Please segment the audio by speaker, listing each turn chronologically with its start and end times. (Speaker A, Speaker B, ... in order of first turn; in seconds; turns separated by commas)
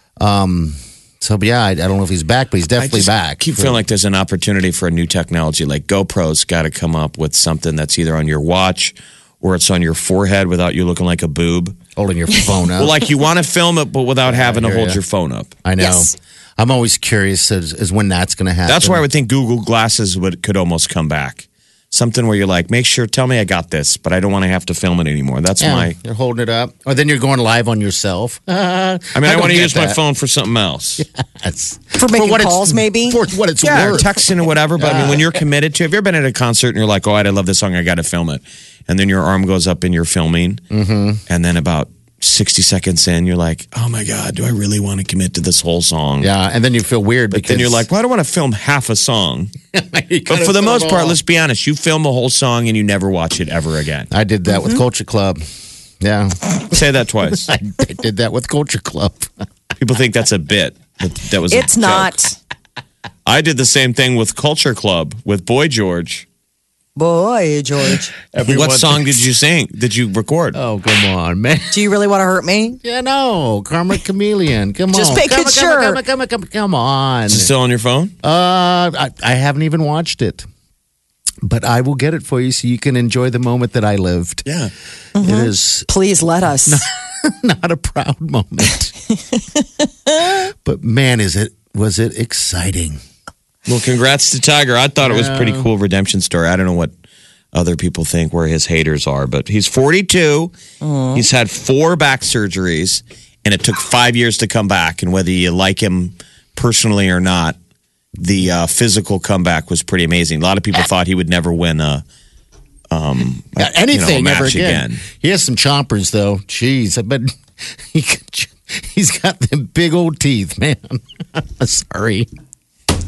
Speaker A: 0.2-3.8, Speaker B: 2.8-11.8, Speaker A: 11.9-12.9, Speaker B: 12.8-15.6, Speaker A: 14.2-15.0, Speaker A: 15.6-19.0, Speaker C: 15.8-16.1, Speaker B: 18.7-25.9, Speaker A: 25.6-30.0, Speaker B: 29.1-31.0, Speaker A: 31.0-35.4, Speaker C: 31.9-33.2, Speaker B: 33.6-40.6, Speaker A: 40.7-41.2, Speaker B: 41.3-46.3, Speaker A: 46.2-47.9, Speaker B: 47.3-49.5, Speaker A: 49.7-51.2, Speaker B: 50.3-54.1, Speaker A: 54.1-55.4, Speaker A: 56.0-56.8, Speaker B: 56.7-57.5, Speaker A: 57.3-59.3, Speaker B: 59.8-62.1, Speaker C: 61.5-62.3, Speaker B: 63.2-66.2, Speaker C: 67.0-68.1, Speaker B: 68.3-70.6, Speaker A: 68.4-69.1, Speaker A: 70.5-71.8, Speaker C: 71.7-72.8, Speaker A: 72.8-77.5, Speaker C: 74.9-76.0, Speaker B: 77.3-78.1, Speaker A: 78.2-80.5, Speaker A: 81.4-84.5, Speaker B: 84.5-84.7, Speaker C: 85.2-86.8, Speaker A: 85.2-85.9, Speaker A: 86.7-88.9, Speaker C: 89.4-90.3, Speaker A: 90.2-93.0, Speaker B: 93.7-96.9, Speaker A: 95.0-95.7, Speaker B: 97.5-100.5, Speaker C: 100.8-101.3, Speaker B: 101.1-107.6, Speaker B: 108.2-112.0, Speaker B: 112.9-115.0, Speaker A: 113.6-122.3